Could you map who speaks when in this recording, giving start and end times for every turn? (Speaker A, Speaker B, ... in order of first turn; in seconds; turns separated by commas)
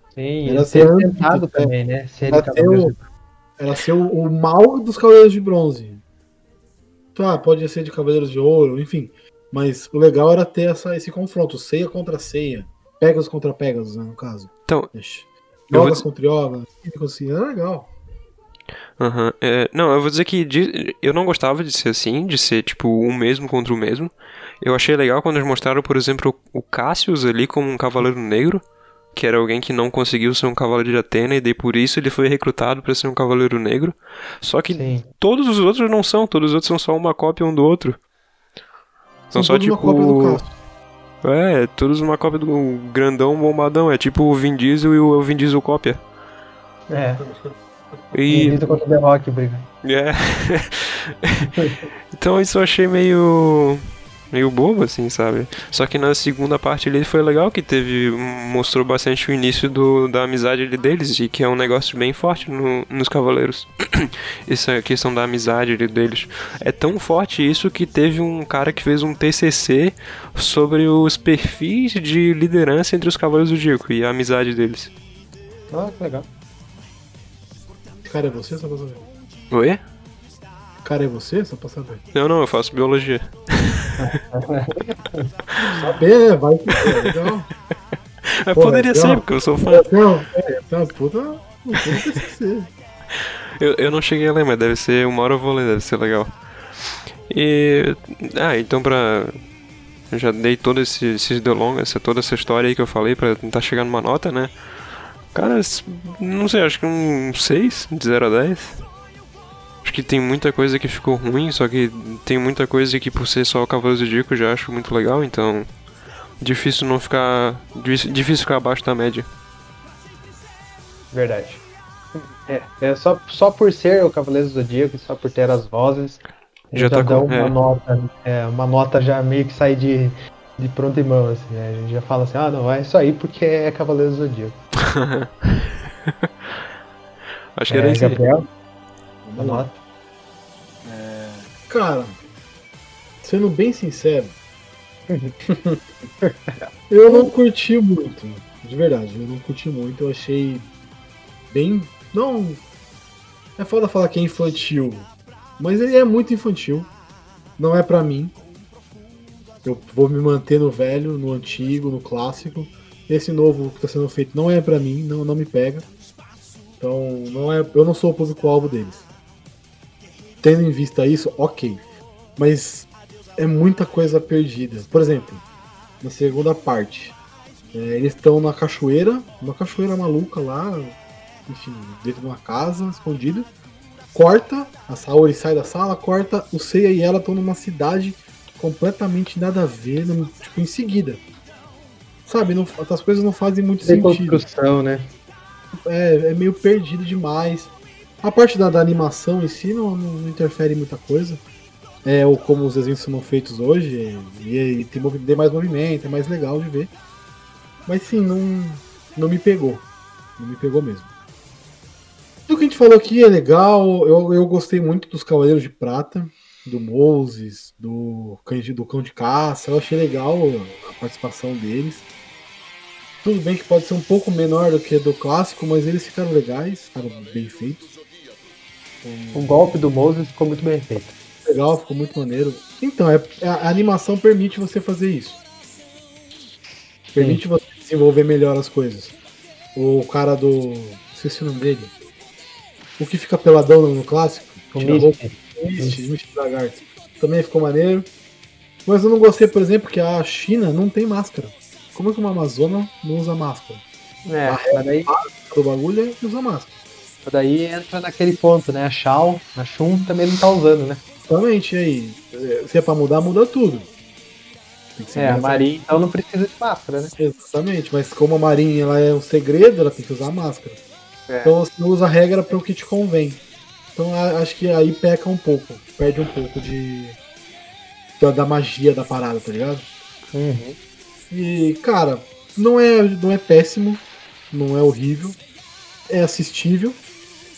Speaker A: 0.2-3.0, Speaker B: 0.5-1.7, Speaker B: 2.3-3.0, Speaker B: 3.6-6.0, Speaker B: 7.2-17.9, Speaker C: 14.7-14.9, Speaker C: 15.7-16.1, Speaker C: 19.0-38.0, Speaker A: 34.7-35.1, Speaker C: 39.3-40.4, Speaker B: 39.3-40.5, Speaker C: 41.2-46.0, Speaker A: 46.9-47.2, Speaker B: 47.2-47.5, Speaker C: 48.1-48.8, Speaker A: 48.3-49.7, Speaker C: 49.8-51.5, Speaker A: 51.4-51.8, Speaker C: 52.1-74.9, Speaker A: 75.7-76.3, Speaker B: 78.0-79.1, Speaker C: 79.5-79.8, Speaker B: 80.8-82.0, Speaker C: 82.1-84.0, Speaker A: 84.0-85.3, Speaker B: 85.6-87.5, Speaker C: 88.3-89.9, Speaker B: 88.5-92.7, Speaker C: 93.2-96.3, Speaker C: 97.3-99.4, Speaker C: 100.1-104.5, Speaker C: 105.3-108.8, Speaker C: 109.8-115.7, Speaker C: 116.4-119.3, Speaker A: 121.1-121.6, Speaker A: 122.2-126.2, Speaker A: 126.7-134.6, Speaker C: 126.7-127.6, Speaker C: 134.9-136.3, Speaker C: 137.6-138.2, Speaker A: 137.7-138.5, Speaker B: 139.2-139.7, Speaker A: 139.4-139.8, Speaker B: 140.8-142.2, Speaker B: 143.2-144.3, Speaker A: 145.1-145.3, Speaker B: 145.5-145.8, Speaker A: 146.2-147.3, Speaker B: 146.9-150.7, Speaker B: 151.5-152.6, Speaker B: 153.6-156.9, Speaker B: 157.6-158.4, Speaker B: 159.6-165.9, Speaker B: 166.8-169.1, Speaker B: 170.4-171.8, Speaker B: 172.4-175.4, Speaker B: 176.0-177.2, Speaker B: 177.7-183.5, Speaker B: 184.1-191.2, Speaker B: 192.3-194.4, Speaker A: 193.8-195.1, Speaker B: 195.8-201.4, Speaker B: 202.0-206.9, Speaker B: 207.9-209.9, Speaker B: 210.4-211.1, Speaker B: 212.5-222.1, Speaker B: 223.2-227.9, Speaker B: 229.0-229.7, Speaker A: 229.3-231.1, Speaker B: 231.4-235.4, Speaker B: 237.1-239.1, Speaker A: 237.2-237.4, Speaker B: 239.8-241.9, Speaker B: 243.0-248.1, Speaker A: 244.8-246.0, Speaker B: 248.9-253.8, Speaker A: 254.2-255.1, Speaker B: 254.4-256.7, Speaker A: 257.2-261.0, Speaker B: 261.3-263.9, Speaker B: 265.0-265.7, Speaker A: 265.1-267.1, Speaker B: 267.2-270.8, Speaker A: 271.3-271.5, Speaker B: 271.4-273.4, Speaker B: 273.9-277.2, Speaker B: 278.2-279.9, Speaker A: 280.3-280.8, Speaker B: 281.3-285.4, Speaker B: 286.1-287.0